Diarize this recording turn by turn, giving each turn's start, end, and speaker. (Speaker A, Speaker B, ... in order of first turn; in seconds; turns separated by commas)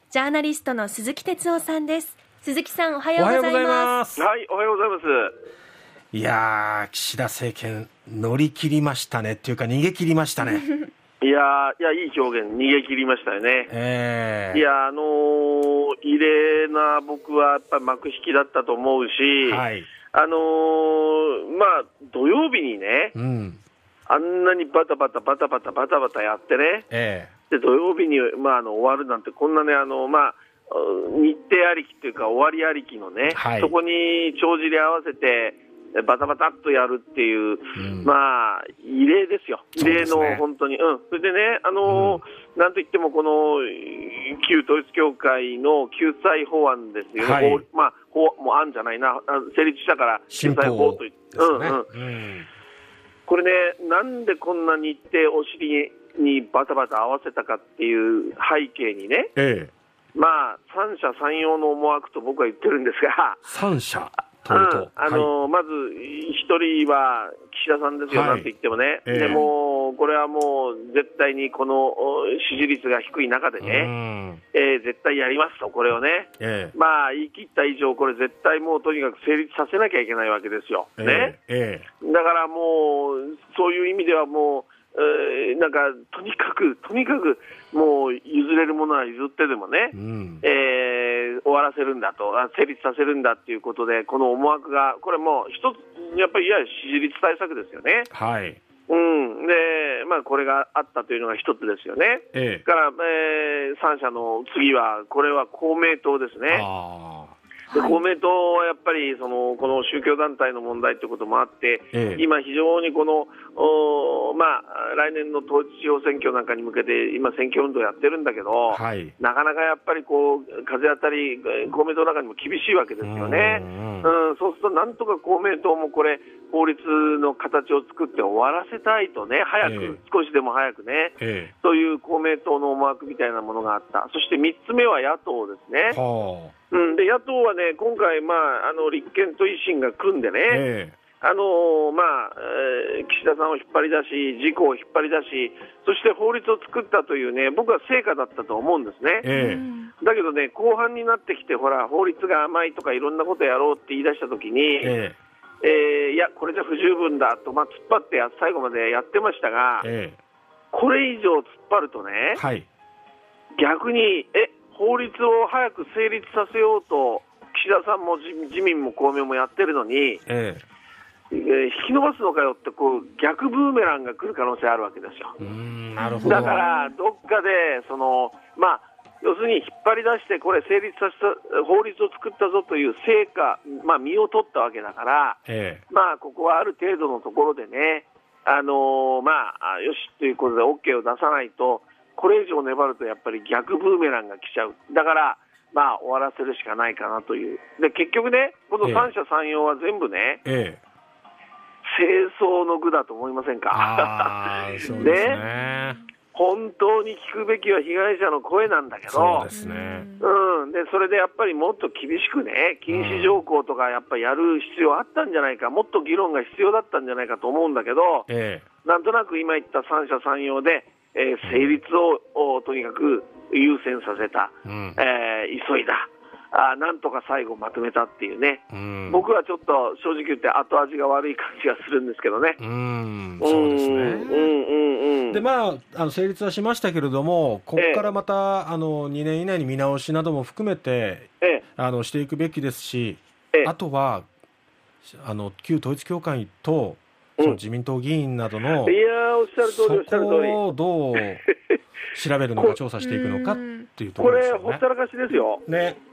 Speaker A: 0.1-3.9, Speaker B: 3.2-4.3, Speaker C: 4.1-5.3, Speaker B: 6.1-10.8, Speaker C: 11.2-13.7, Speaker B: 13.7-14.7, Speaker C: 14.5-23.1, Speaker B: 19.4-19.9, Speaker B: 23.1-23.6, Speaker C: 24.1-26.9, Speaker B: 26.9-27.3, Speaker C: 27.5-51.9, Speaker B: 33.3-33.7, Speaker B: 37.8-38.1, Speaker B: 39.8-40.4, Speaker B: 41.9-42.2, Speaker B: 47.2-47.6, Speaker B: 50.3-52.5, Speaker C: 53.3-59.3, Speaker B: 59.4-59.7, Speaker C: 60.1-63.5, Speaker B: 63.5-65.3, Speaker C: 64.5-73.9, Speaker B: 68.1-68.5, Speaker B: 69.0-69.4, Speaker B: 73.6-74.4, Speaker C: 74.5-81.4, Speaker B: 76.4-76.7, Speaker B: 81.0-81.9, Speaker C: 82.0-98.1, Speaker B: 89.9-90.4, Speaker B: 98.1-98.6, Speaker C: 98.9-106.7, Speaker B: 102.3-102.7, Speaker B: 106.5-107.4, Speaker A: 107.7-108.0, Speaker C: 107.7-136.0, Speaker B: 111.9-112.2, Speaker B: 118.7-119.1, Speaker B: 123.0-124.1, Speaker B: 129.6-130.0, Speaker B: 131.2-131.5, Speaker B: 135.9-136.5, Speaker C: 136.7-140.6, Speaker B: 140.5-141.0, Speaker C: 141.2-149.3, Speaker B: 149.2-149.6, Speaker A: 149.3-149.9, Speaker C: 150.0-154.9, Speaker B: 154.8-155.2, Speaker C: 155.6-159.9, Speaker B: 159.8-160.2, Speaker C: 160.7-162.4, Speaker B: 162.4-162.7, Speaker C: 163.6-170.2, Speaker B: 170.3-170.6, Speaker C: 171.3-175.4, Speaker B: 175.4-176.7, Speaker A: 176.0-176.9, Speaker C: 176.2-200.4, Speaker B: 185.5-185.8, Speaker B: 198.8-199.1, Speaker B: 200.4-200.8, Speaker C: 201.9-205.4, Speaker B: 203.7-206.0, Speaker A: 204.8-206.0, Speaker C: 206.3-209.5, Speaker B: 209.1-210.1, Speaker A: 209.5-210.3, Speaker C: 210.2-218.3, Speaker B: 212.9-213.4, Speaker B: 218.3-218.6, Speaker C: 218.8-232.6, Speaker B: 221.4-221.8, Speaker B: 224.7-225.0, Speaker B: 228.7-229.2, Speaker B: 232.6-234.5, Speaker C: 233.4-235.4, Speaker B: 235.3-244.3, Speaker C: 237.8-238.1, Speaker B: 245.0-249.0, Speaker C: 248.8-250.6, Speaker B: 249.6-251.4, Speaker C: 251.2-251.8, Speaker B: 252.1-254.8, Speaker A: 253.0-253.9, Speaker C: 254.2-255.7, Speaker B: 255.7-256.0